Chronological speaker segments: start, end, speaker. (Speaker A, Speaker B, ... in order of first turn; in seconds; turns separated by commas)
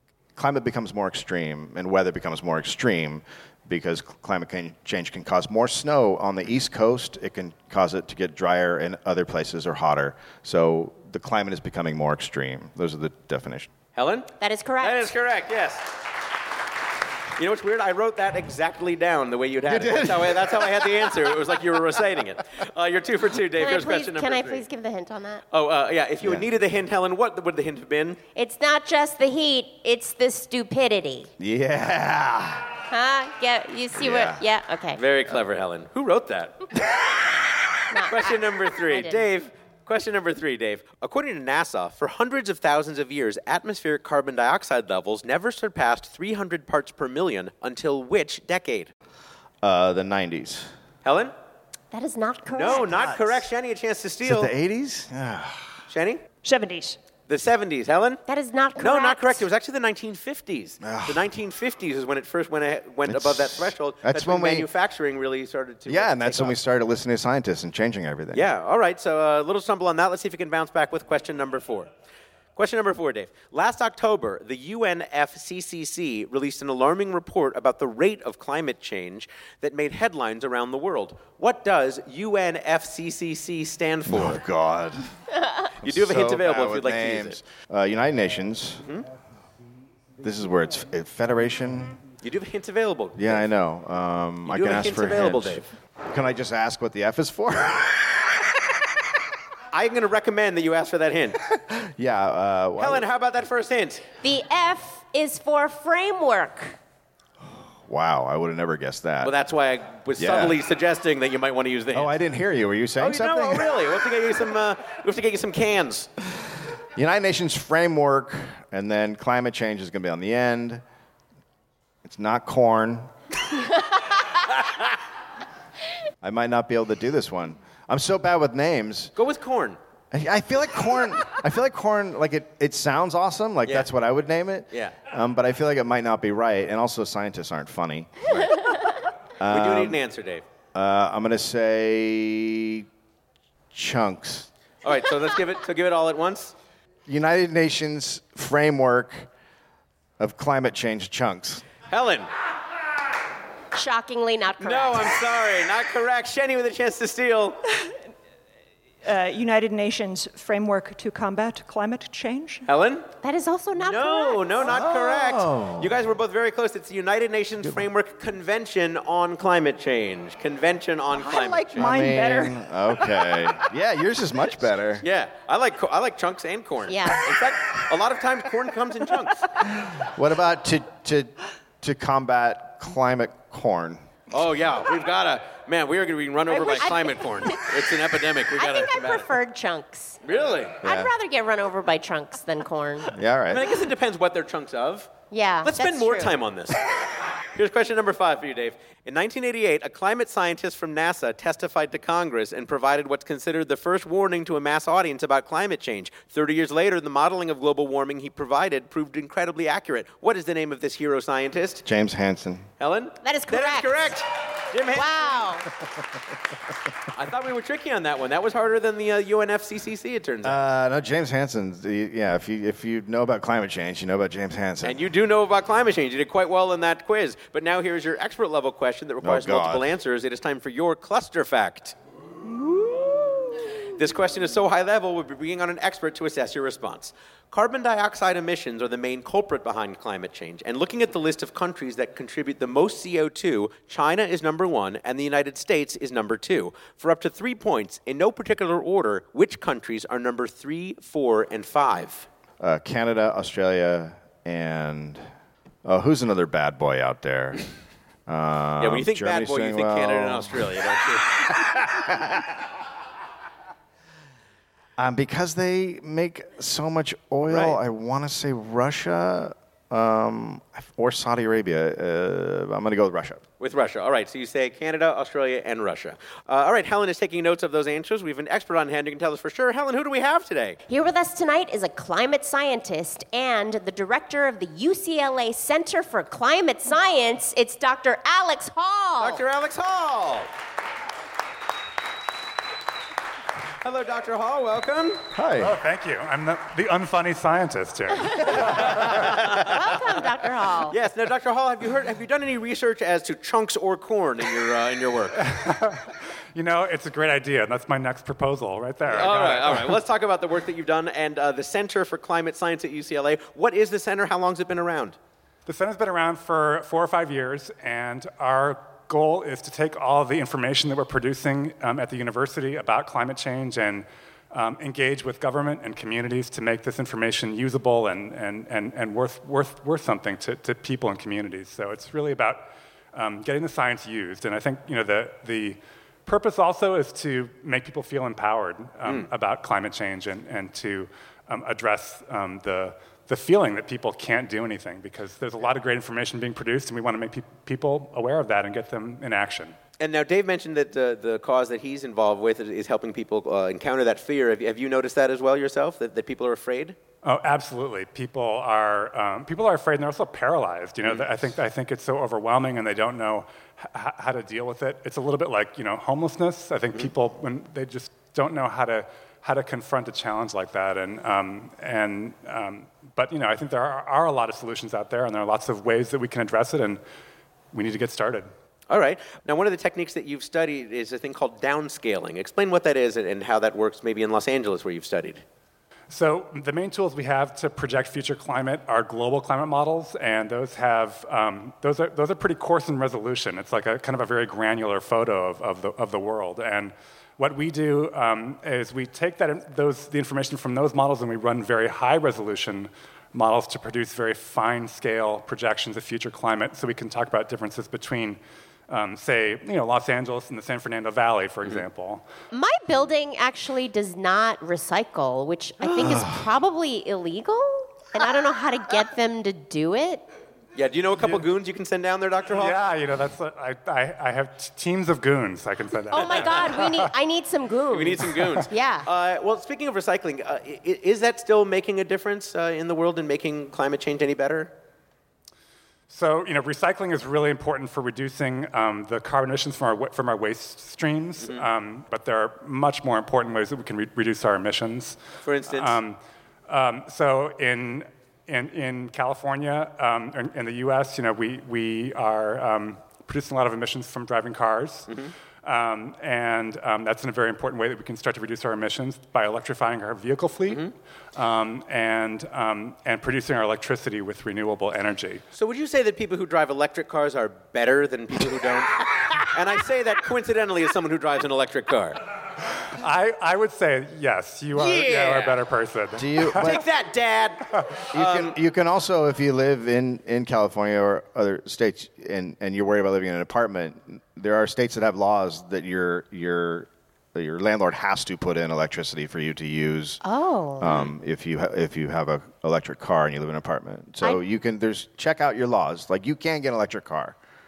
Speaker A: 0.3-13.7, Speaker B: 13.9-14.3, Speaker C: 14.4-15.1, Speaker B: 14.8-15.9, Speaker B: 17.4-24.6, Speaker A: 19.6-21.1, Speaker C: 23.6-25.4, Speaker B: 25.5-28.2, Speaker C: 28.3-31.3, Speaker A: 31.4-32.7, Speaker C: 32.9-35.0, Speaker A: 34.0-34.4, Speaker B: 35.0-36.7, Speaker C: 37.9-39.2, Speaker B: 38.1-48.9, Speaker A: 49.6-50.7, Speaker B: 51.0-51.3, Speaker C: 51.9-53.1, Speaker B: 52.5-54.5, Speaker A: 54.2-55.7, Speaker B: 55.9-56.2, Speaker D: 56.4-57.0, Speaker B: 57.3-58.2, Speaker C: 58.3-59.5, Speaker B: 58.8-66.6, Speaker A: 60.8-61.2, Speaker A: 63.0-64.7, Speaker A: 65.9-68.5, Speaker B: 68.3-71.9, Speaker B: 72.5-84.4, Speaker A: 84.1-85.1, Speaker A: 85.8-88.8, Speaker B: 85.8-87.4, Speaker A: 90.2-92.0, Speaker B: 92.2-93.4, Speaker A: 93.2-98.7, Speaker B: 94.5-95.7, Speaker B: 99.7-101.4, Speaker A: 101.5-103.0, Speaker B: 102.8-104.0, Speaker C: 104.2-106.8, Speaker A: 107.9-109.3, Speaker B: 109.2-112.1, Speaker A: 110.2-110.6, Speaker A: 111.9-113.7, Speaker B: 113.0-116.1, Speaker A: 117.0-120.8, Speaker A: 122.0-123.1, Speaker A: 126.2-129.1, Speaker B: 129.2-129.8, Speaker A: 130.1-138.5, Speaker B: 134.7-134.9, Speaker A: 139.4-140.0, Speaker B: 139.5-140.4, Speaker A: 140.7-142.9, Speaker A: 143.7-144.5, Speaker B: 144.8-146.5, Speaker A: 147.1-149.3, Speaker A: 150.2-151.6, Speaker B: 151.9-152.3, Speaker C: 153.7-155.2, Speaker B: 154.6-157.6, Speaker D: 159.0-162.7, Speaker B: 162.7-163.1, Speaker C: 163.2-164.6, Speaker B: 163.8-171.9, Speaker A: 164.6-165.9, Speaker D: 171.2-172.6, Speaker A: 171.8-175.0, Speaker B: 175.0-179.5, Speaker C: 176.9-177.2, Speaker A: 179.8-184.1, Speaker B: 184.3-189.3, Speaker C: 186.5-187.7, Speaker C: 188.5-190.2, Speaker B: 190.2-190.8, Speaker A: 190.8-191.1, Speaker C: 190.8-193.1, Speaker A: 193.1-193.7, Speaker B: 193.5-195.1, Speaker C: 195.3-196.3, Speaker B: 195.6-197.0, Speaker B: 197.5-211.8, Speaker A: 211.8-212.7, Speaker B: 212.8-215.4, Speaker C: 213.2-214.2, Speaker C: 214.9-215.7, Speaker B: 217.1-220.6, Speaker A: 220.4-225.0, Speaker B: 224.8-231.9, Speaker A: 229.2-229.9, Speaker B: 233.9-252.3, Speaker A: 252.6-255.2, Speaker A: 255.8-257.6, Speaker A: 258.3-260.8, Speaker B: 258.8-261.5, Speaker A: 261.5-262.5, Speaker A: 265.0-273.4, Speaker B: 267.5-267.8, Speaker B: 273.6-280.8, Speaker C: 280.9-289.4, Speaker B: 289.2-290.5, Speaker B: 293.8-295.2, Speaker A: 295.3-295.7, Speaker E: 295.6-299.1, Speaker B: 298.9-299.7, Speaker C: 299.6-300.9, Speaker B: 300.9-305.4, Speaker E: 305.4-310.0, Speaker B: 309.1-315.1, Speaker E: 315.6-349.8, Speaker B: 339.0-339.3, Speaker B: 350.0-357.0, Speaker E: 357.2-377.0, Speaker B: 361.0-361.3, Speaker E: 377.7-378.5, Speaker B: 378.9-385.4, Speaker E: 386.1-412.2, Speaker C: 412.5-420.2, Speaker A: 415.9-416.4, Speaker B: 420.7-422.8, Speaker E: 422.5-427.1, Speaker C: 426.1-429.1, Speaker B: 426.2-426.5, Speaker B: 427.9-434.7, Speaker E: 436.1-455.1, Speaker B: 441.4-441.6, Speaker B: 445.4-446.0, Speaker E: 455.6-465.4, Speaker B: 460.7-460.9, Speaker B: 465.6-472.2, Speaker E: 473.0-476.8, Speaker B: 474.7-475.6, Speaker A: 476.2-476.8, Speaker B: 476.5-478.6, Speaker A: 478.1-490.2, Speaker C: 490.2-490.9, Speaker A: 490.8-497.4, Speaker B: 490.9-491.1